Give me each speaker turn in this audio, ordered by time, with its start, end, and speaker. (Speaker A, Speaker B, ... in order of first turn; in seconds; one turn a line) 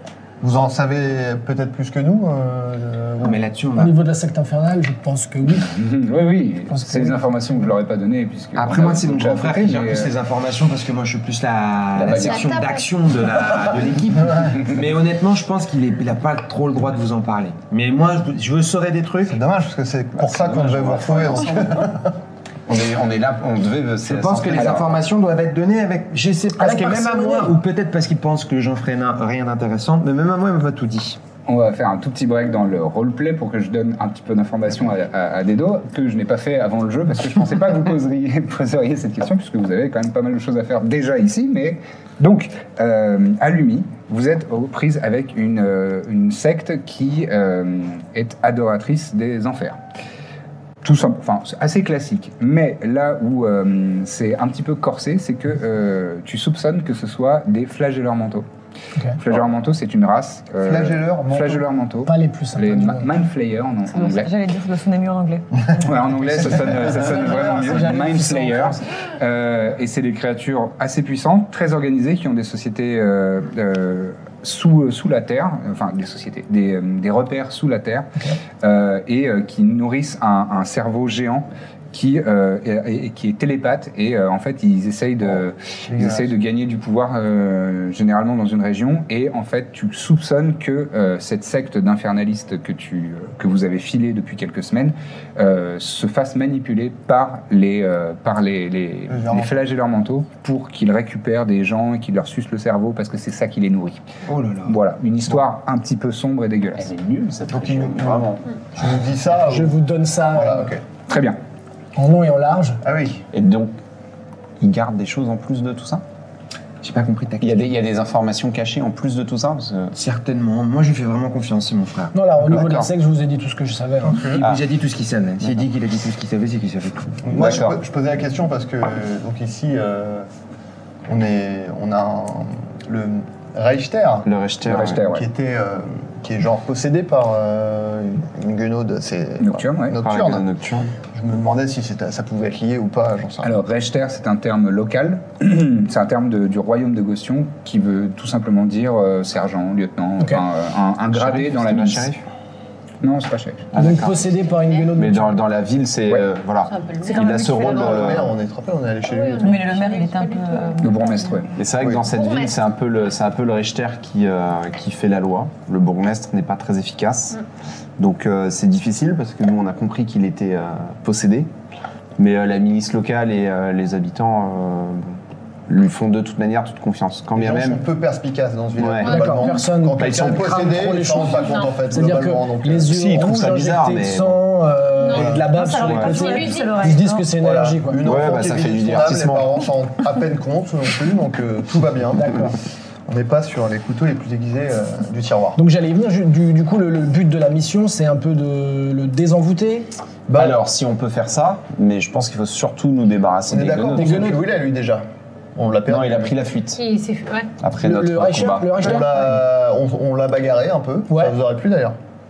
Speaker A: 0.4-3.4
Speaker B: 3.2-4.0
Speaker C: 3.8-5.7
Speaker D: 5.5-10.1
Speaker C: 6.7-7.2
Speaker B: 8.5-19.4
Speaker E: 12.0-12.4
Speaker F: 12.1-12.9
Speaker A: 19.2-22.1
Speaker E: 20.1-21.8
Speaker E: 22.7-25.0
Speaker B: 24.0-31.2
Speaker C: 26.6-27.5
Speaker D: 31.5-49.8
Speaker D: 50.8-58.5
Speaker D: 59.2-64.3
Speaker A: 60.6-61.6
Speaker C: 62.0-63.1
Speaker G: 63.9-65.5
Speaker D: 65.8-78.1
Speaker C: 66.6-68.8
Speaker D: 78.6-104.0
Speaker A: 85.9-86.3
Speaker A: 99.1-99.6
Speaker B: 104.3-104.7
Speaker D: 104.6-106.9
Speaker E: 106.8-108.5
Speaker A: 107.5-109.8
Speaker C: 109.5-110.7
Speaker A: 110.3-110.8
Speaker D: 111.1-111.4
Speaker C: 112.0-112.8
Speaker A: 112.8-113.2
Speaker E: 113.3-113.7
Speaker E: 114.6-116.0
Speaker B: 116.8-117.7
Speaker E: 117.4-119.9
Speaker B: 119.9-122.1
Speaker C: 122.1-124.2
Speaker E: 122.5-122.9
Speaker A: 124.0-124.4
Speaker B: 124.3-127.5
Speaker A: 127.2-130.3
Speaker E: 127.3-127.8
Speaker A: 131.1-143.5
Speaker E: 134.2-135.0
Speaker D: 134.7-135.2
Speaker D: 139.4-140.0
Speaker E: 140.0-140.9
Speaker D: 143.4-152.1
Speaker B: 151.2-151.6
Speaker E: 151.2-152.2
Speaker D: 153.0-153.7
Speaker E: 153.7-154.3
Speaker C: 153.7-155.4
Speaker F: 154.3-154.9
Speaker E: 154.9-158.3
Speaker F: 156.6-158.1
Speaker G: 157.0-158.1
Speaker A: 157.5-159.7
Speaker F: 159.0-161.1
Speaker G: 159.4-161.4
Speaker D: 160.8-161.5
Speaker E: 161.6-167.4
Speaker F: 161.9-162.6
Speaker E: 168.0-171.5
Speaker E: 172.2-177.8
Speaker A: 177.3-183.0
Speaker E: 178.8-179.2
Speaker F: 179.1-179.5
Speaker C: 179.1-188.0
Speaker E: 180.0-180.6
Speaker F: 181.3-181.8
Speaker E: 182.9-184.4
Speaker F: 185.0-186.9
Speaker G: 185.5-187.4
Speaker A: 187.4-192.5
Speaker E: 188.0-189.5
Speaker C: 192.1-192.6
Speaker A: 193.1-195.6
Speaker C: 195.6-199.9
Speaker A: 200.3-200.6
Speaker E: 200.3-204.4
Speaker A: 203.5-205.0
Speaker C: 203.9-204.4
Speaker A: 205.6-206.4
Speaker E: 205.9-206.8
Speaker F: 206.8-207.5
Speaker E: 207.6-208.9
Speaker C: 207.8-209.4
Speaker A: 208.8-211.9
Speaker C: 211.1-211.3